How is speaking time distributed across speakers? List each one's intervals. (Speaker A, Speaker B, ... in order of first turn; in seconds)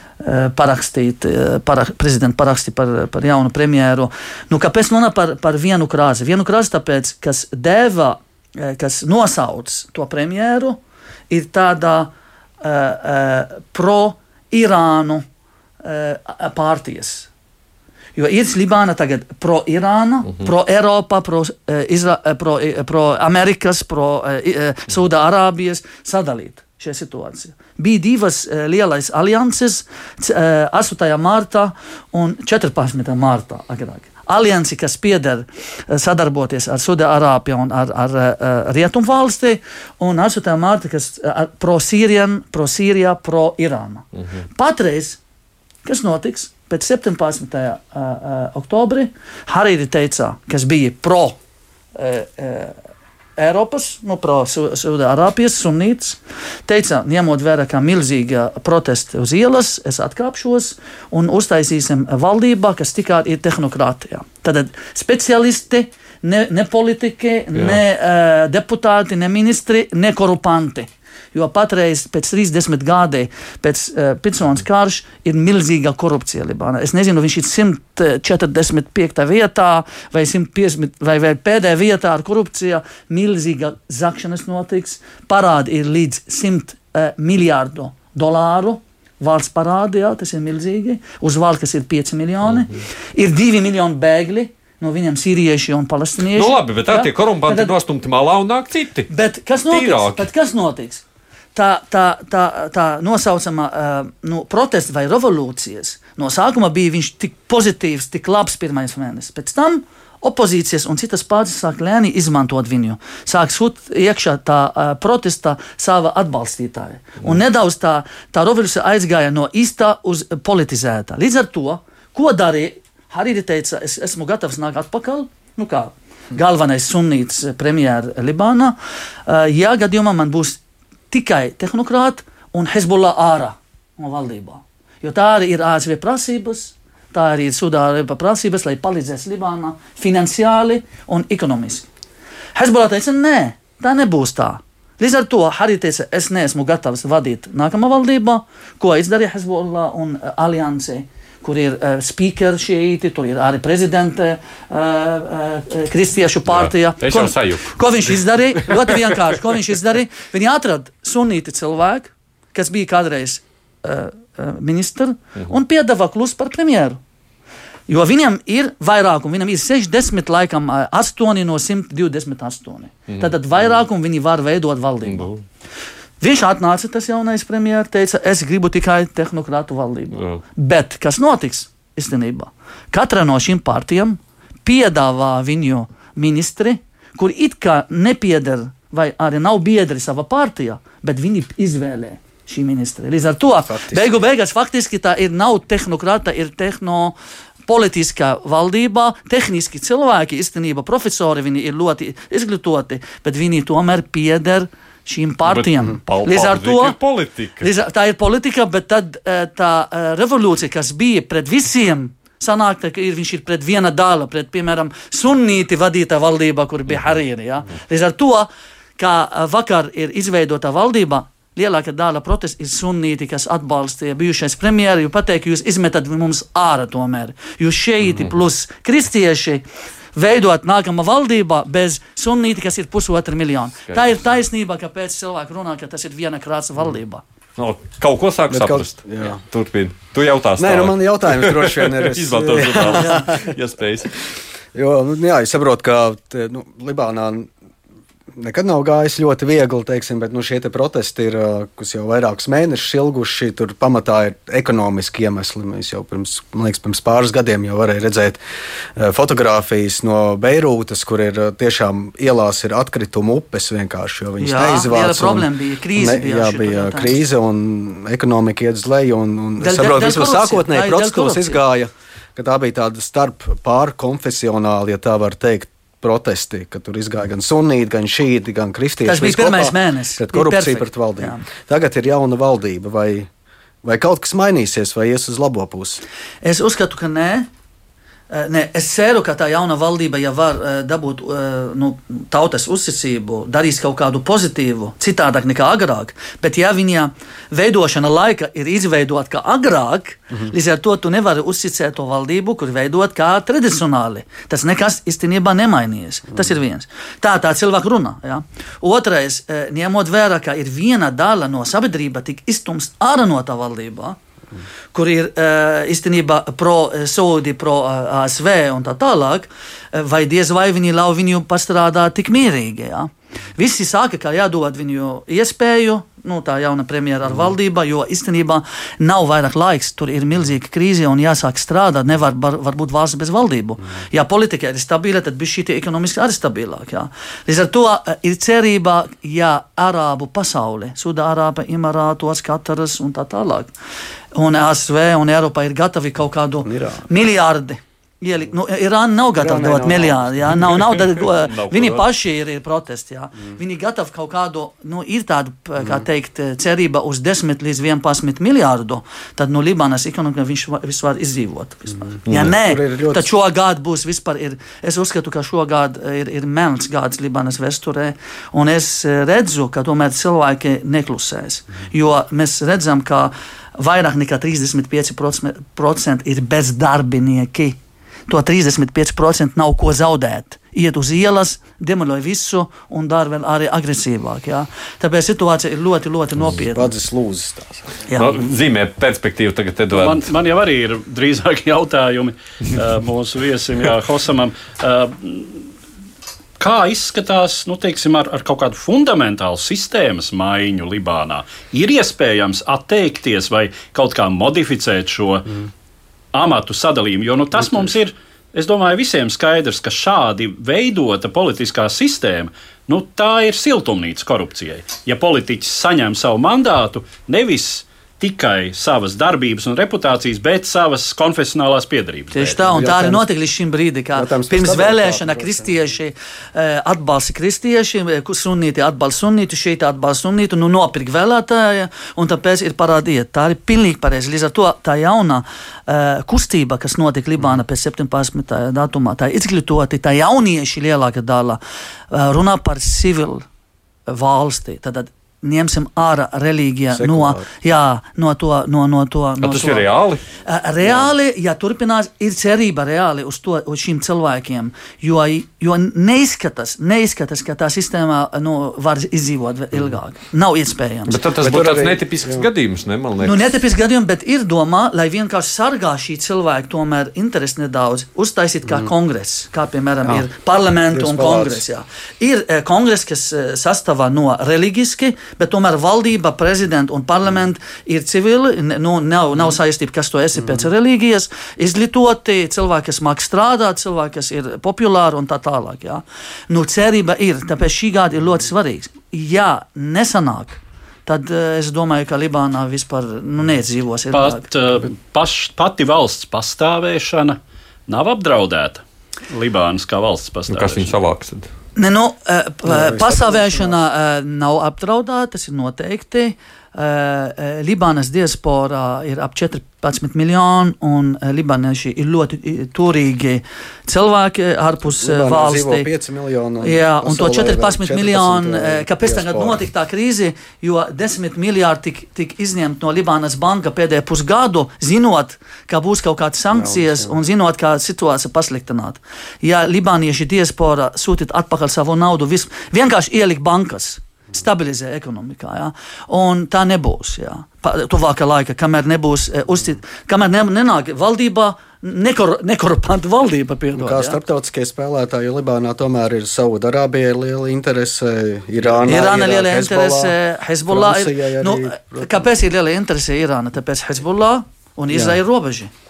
Speaker A: 0.2-15.2, 15.8-17.3, 18.2-45.2, 45.9-51.4, 52.0-52.8, 53.4-97.8, 99.1-101.0, 101.5-130.6, 131.1-141.9, 142.6-167.0, 167.9-175.3, 176.2-197.2, 197.7-207.0, 207.6-237.2, 264.4-267.2, 269.6-271.6, 279.1-281.4, 286.4-287.5, 288.3-314.2, 314.9-343.7, 344.3-386.9, 388.1-388.3, 422.3-443.5, 444.1-449.9, 450.5-461.2, 463.2-494.5, 501.8-515.9, 516.6-544.2, 548.8-555.7
Speaker B: 67.5-67.8, 96.3-99.1, 99.7-100.3, 156.5-157.8, 158.6-159.0, 173.1-173.4, 175.1-175.4, 180.1-180.4, 205.5-207.7, 233.9-234.2, 237.6-244.2, 351.2-352.1, 362.3-362.6, 388.1-390.3, 449.4-450.2, 461.1-463.6, 500.5-501.5
Speaker C: 193.7-194.1, 238.5-239.4, 240.6-243.5, 244.7-247.5, 248.3-258.4, 259.0-283.3, 283.8-286.0, 346.7-347.0, 349.4-350.8, 362.4-363.3, 386.5-388.0, 422.6-423.3, 424.2-425.8, 446.9-447.5, 461.4-462.5, 470.9-471.6, 502.6-503.8, 514.8-519.6, 526.5-527.1, 543.8-552.2, 554.9-555.2
Speaker D: 389.9-395.7, 396.6-405.6, 406.3-422.7, 494.1-500.9